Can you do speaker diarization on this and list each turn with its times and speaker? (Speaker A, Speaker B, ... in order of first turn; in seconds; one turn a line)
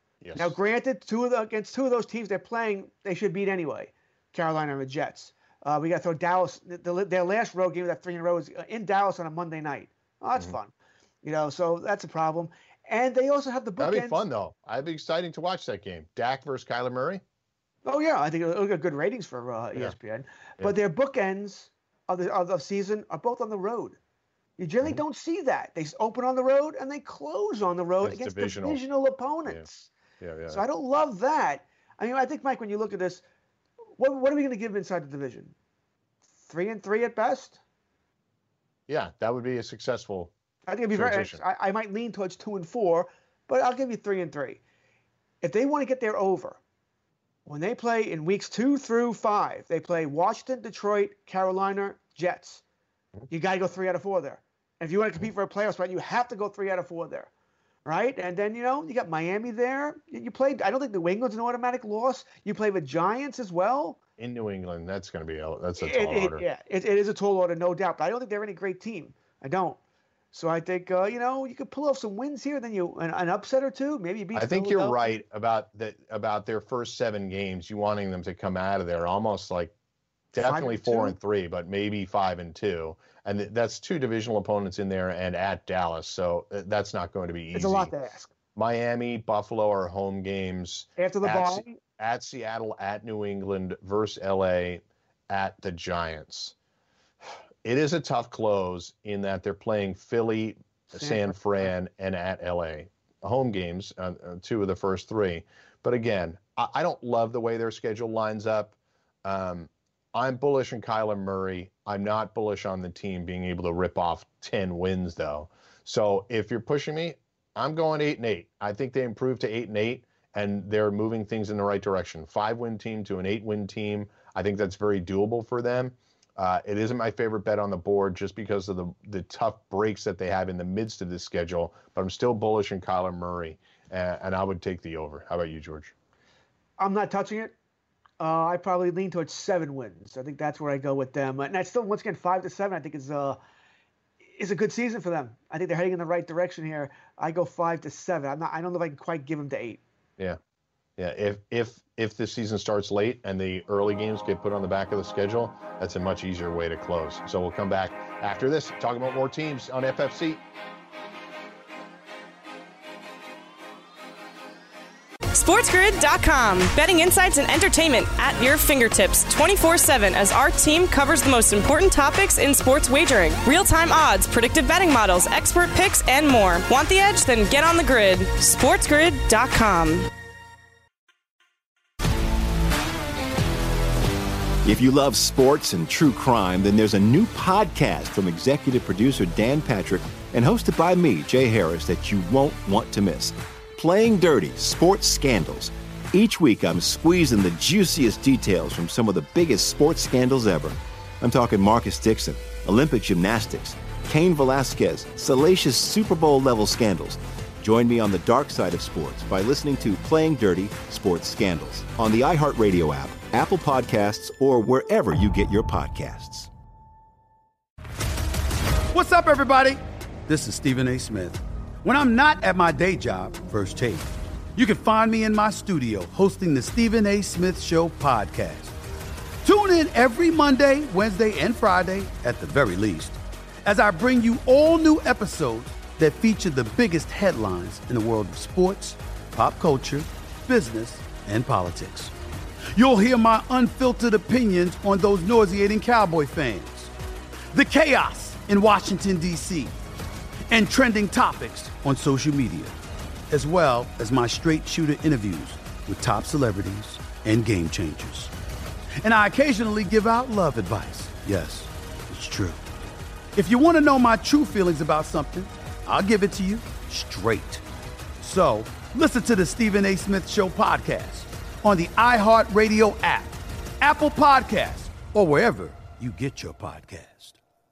Speaker A: 0.2-0.6
Speaker B: 0.3-10.7
Speaker B: 11.2-14.2
Speaker A: 13.8-17.2
Speaker B: 17.8-24.0
Speaker B: 24.6-29.9
Speaker A: 28.0-28.8
Speaker A: 30.2-30.6
Speaker B: 30.5-33.2
Speaker B: 34.0-35.5
Speaker B: 36.4-37.6
Speaker A: 38.9-40.3
Speaker B: 40.6-44.6
Speaker A: 40.9-41.4
Speaker B: 45.4-46.6
Speaker B: 47.5-52.6
Speaker B: 53.3-57.3
Speaker B: 57.8-64.0
Speaker A: 64.2-66.4
Speaker B: 65.8-69.8
Speaker B: 70.3-75.0
Speaker A: 74.3-79.7
Speaker A: 80.3-87.9
Speaker B: 80.4-81.1
Speaker B: 87.5-88.3
Speaker A: 88.5-96.5
Speaker B: 91.0-91.8
Speaker A: 97.6-135.9
Speaker B: 100.9-101.7
Speaker B: 136.8-137.5
Speaker B: 138.2-143.4
Speaker B: 144.3-149.8
Speaker A: 151.0-160.4
Speaker C: 165.3-180.1
Speaker D: 184.6-216.5
Speaker E: 218.9-228.7
Speaker E: 229.4-242.1
Speaker E: 242.7-246.9
Speaker E: 247.5-249.7
Speaker E: 250.5-252.8
Speaker E: 253.3-258.3
Speaker E: 259.0-262.6
Speaker E: 263.3-267.6
Speaker E: 268.2-277.4